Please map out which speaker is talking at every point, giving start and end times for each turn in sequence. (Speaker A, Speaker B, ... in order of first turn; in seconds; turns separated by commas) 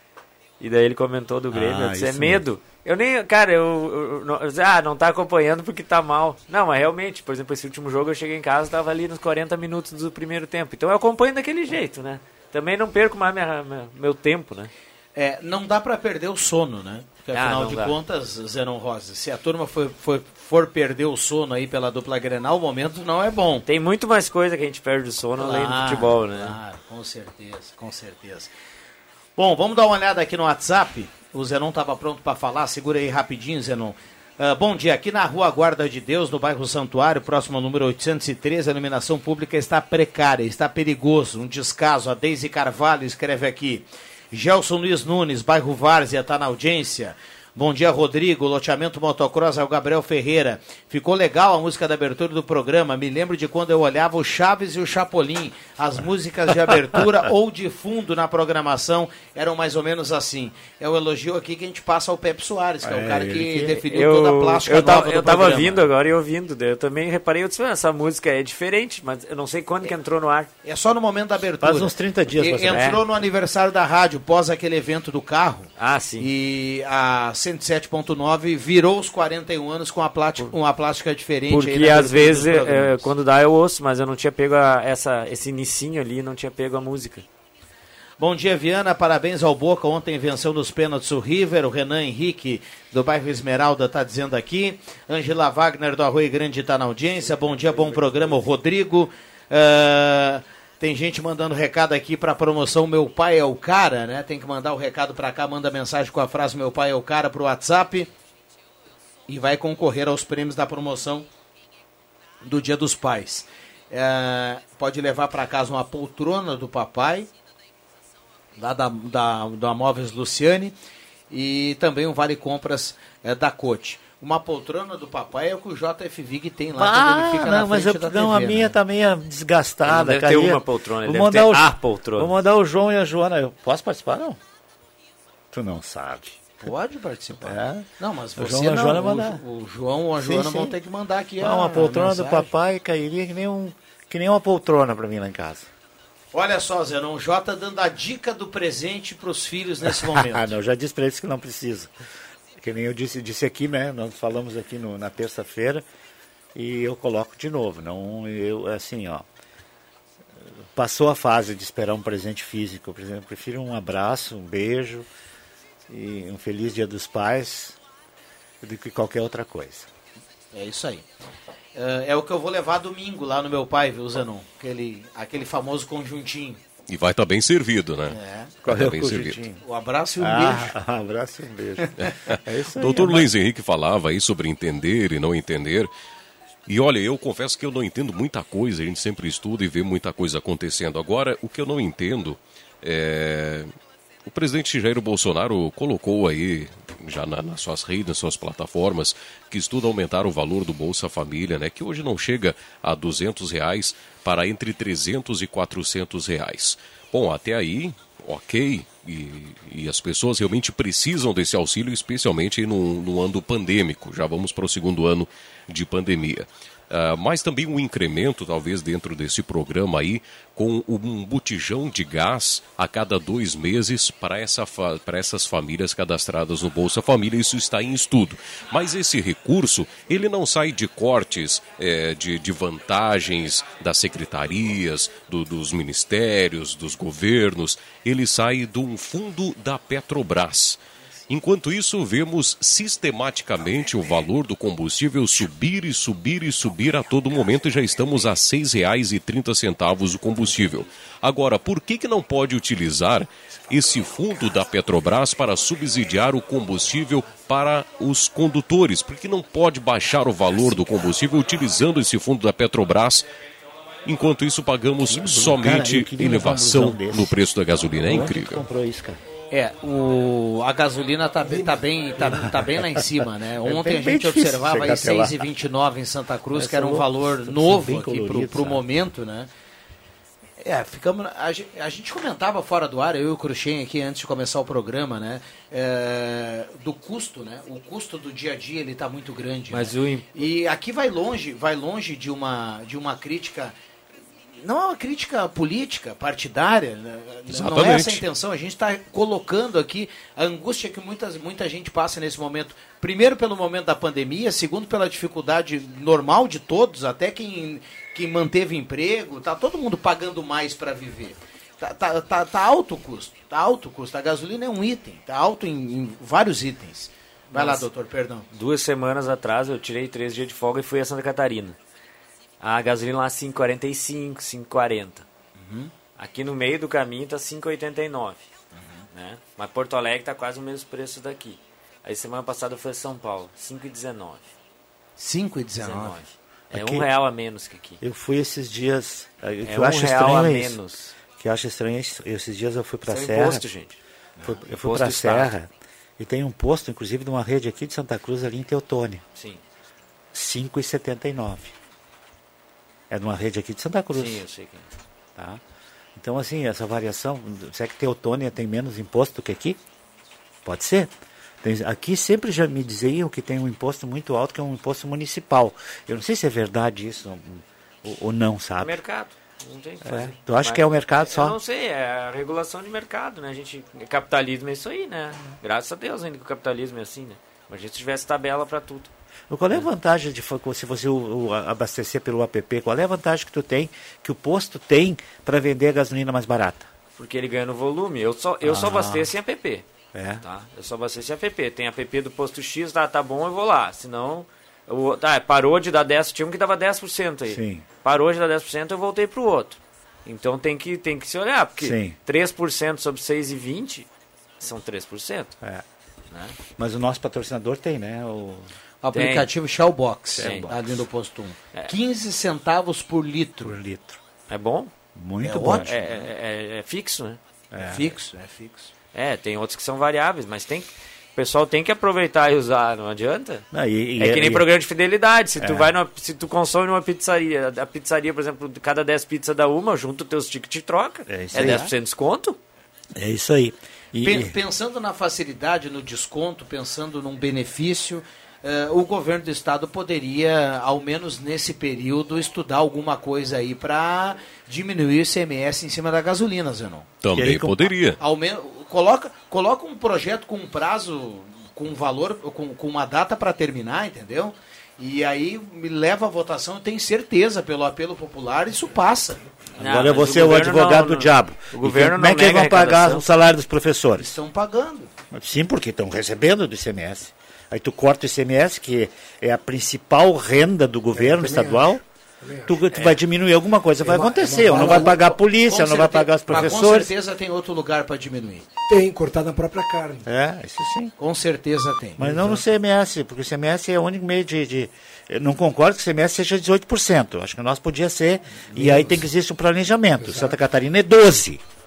Speaker A: 0.6-14.7, Speaker B: 1.5-2.4, Speaker C: 15.2-23.6, Speaker A: 17.3-17.9, Speaker A: 23.7-26.6, Speaker C: 25.4-28.5, Speaker C: 29.4-65.8, Speaker B: 62.8-63.8, Speaker A: 63.8-70.5, Speaker C: 70.6-83.1, Speaker B: 71.6-73.0, Speaker A: 72.7-73.0, Speaker A: 75.8-76.3, Speaker A: 81.5-87.3, Speaker C: 88.2-108.1, Speaker C: 109.3-111.3, Speaker C: 112.4-117.3, Speaker C: 118.6-120.8, Speaker C: 121.3-128.8, Speaker B: 126.7-134.4, Speaker A: 129.9-132.3, Speaker B: 135.5-136.5, Speaker C: 136.6-142.5, Speaker B: 137.4-139.4, Speaker B: 140.2-140.8, Speaker B: 141.4-145.7, Speaker C: 146.3-150.5, Speaker B: 149.8-151.9, Speaker B: 152.6-155.8, Speaker B: 156.6-159.2, Speaker B: 160.4-165.1, Speaker B: 165.9-167.8, Speaker B: 168.6-169.9, Speaker C: 170.5-171.0, Speaker C: 171.8-176.6, Speaker D: 176.9-179.4, Speaker C: 178.1-178.5, Speaker B: 178.6-179.6, Speaker C: 179.6-180.7, Speaker B: 180.2-183.3, Speaker D: 182.7-185.9, Speaker D: 186.7-193.7, Speaker D: 194.3-263.3, Speaker D: 264.1-268.6, Speaker B: 265.1-269.2, Speaker C: 269.5-279.5, Speaker E: 271.5-271.8, Speaker B: 272.2-273.0, Speaker B: 273.6-275.4, Speaker B: 276.5-278.8, Speaker C: 280.6-293.7, Speaker A: 289.7-290.3, Speaker C: 294.6-318.5, Speaker D: 297.5-298.2, Speaker A: 317.5-317.9, Speaker A: 318.5-321.8, Speaker A: 322.6-325.2, Speaker C: 325.6-325.9, Speaker A: 326.2-328.4, Speaker A: 329.1-334.5, Speaker C: 335.2-336.2, Speaker A: 335.8-338.0, Speaker B: 336.7-337.1, Speaker B: 338.0-340.8, Speaker A: 339.7-341.2, Speaker B: 341.4-343.7, Speaker A: 343.1-344.0, Speaker B: 344.4-349.2, Speaker A: 344.7-345.5, Speaker A: 349.4-349.6, Speaker B: 350.3-351.7, Speaker B: 353.1-354.4, Speaker A: 354.1-354.9, Speaker B: 355.4-355.6, Speaker B: 356.2-359.8, Speaker B: 360.6-369.0, Speaker A: 368.8-379.1, Speaker B: 370.0-371.6, Speaker B: 379.5-386.9, Speaker A: 387.2-389.9, Speaker B: 388.6-389.3, Speaker B: 390.1-390.4, Speaker A: 390.4-404.1, Speaker B: 397.5-397.9, Speaker B: 401.8-402.2, Speaker A: 404.6-405.6, Speaker A: 406.3-406.6, Speaker B: 406.8-408.7, Speaker C: 409.0-413.8, Speaker A: 409.1-409.5, Speaker B: 410.4-411.0, Speaker A: 410.4-410.7, Speaker B: 413.6-414.2, Speaker A: 414.5-414.9, Speaker B: 415.2-415.9, Speaker C: 415.4-416.0, Speaker A: 415.8-417.4, Speaker B: 417.7-418.1, Speaker C: 417.8-418.9, Speaker A: 419.1-423.6, Speaker B: 423.7-424.7, Speaker A: 424.2-432.6, Speaker B: 425.6-425.9, Speaker B: 431.3-431.9, Speaker C: 431.6-431.9, Speaker B: 433.1-434.5, Speaker C: 434.2-447.1, Speaker D: 447.2-448.2, Speaker B: 447.4-447.9, Speaker C: 448.2-459.4, Speaker A: 459.8-463.3, Speaker B: 459.8-464.3, Speaker C: 464.2-465.1, Speaker B: 465.3-472.0, Speaker E: 471.1-472.8, Speaker B: 472.7-477.1, Speaker E: 474.0-475.3, Speaker C: 474.8-475.1, Speaker C: 475.6-478.7, Speaker E: 478.9-480.3, Speaker B: 480.3-481.1, Speaker C: 481.2-482.2, Speaker B: 482.2-491.6, Speaker E: 482.2-482.6, Speaker E: 488.8-489.1, Speaker E: 490.2-490.5